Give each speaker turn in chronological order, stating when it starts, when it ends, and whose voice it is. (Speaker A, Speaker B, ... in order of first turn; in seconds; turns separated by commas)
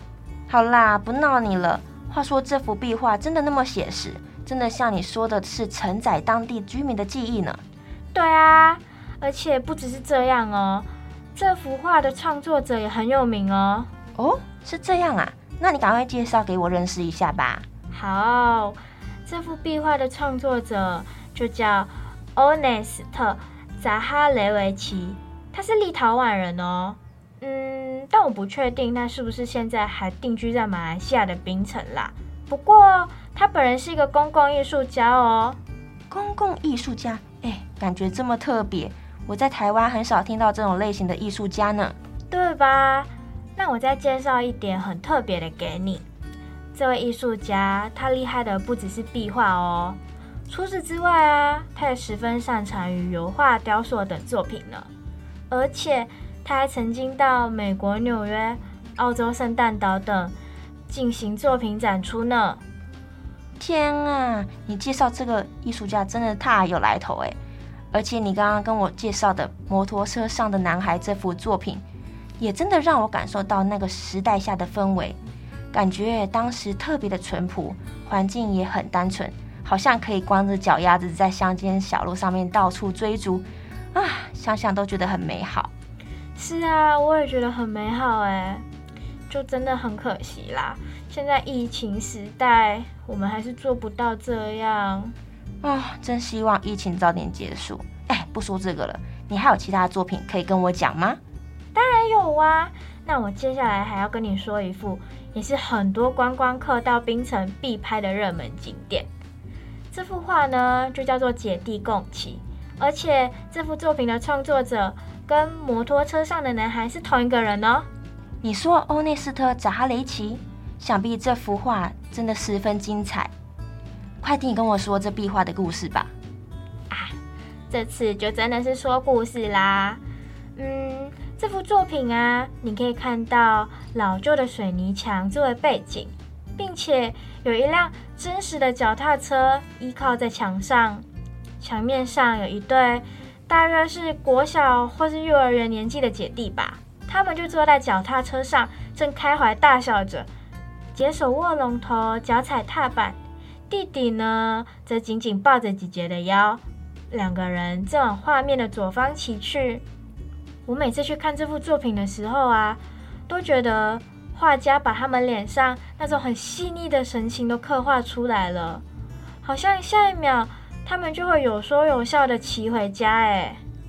Speaker A: 0.5-7.6, Speaker B: 8.1-13.9, Speaker A: 14.2-17.7, Speaker B: 17.9-35.6, Speaker A: 36.1-42.0, Speaker B: 42.3-46.0, Speaker B: 46.7-54.9, Speaker B: 55.5-60.3, Speaker B: 60.9-62.6, Speaker A: 63.6-67.4, Speaker A: 67.9-71.8, Speaker A: 72.4-75.2, Speaker A: 75.7-85.7, Speaker B: 86.3-88.6, Speaker B: 89.3-95.2, Speaker A: 95.6-101.2, Speaker B: 101.8-109.1, Speaker B: 109.9-117.9, Speaker A: 118.4-123.3, Speaker A: 124.2-126.1, Speaker B: 126.9-127.2, Speaker B: 127.7-130.0, Speaker B: 130.6-141.1, Speaker B: 141.6-150.3, Speaker B: 150.9-153.2, Speaker B: 153.7-159.8, Speaker B: 160.7-168.8, Speaker B: 169.4-173.6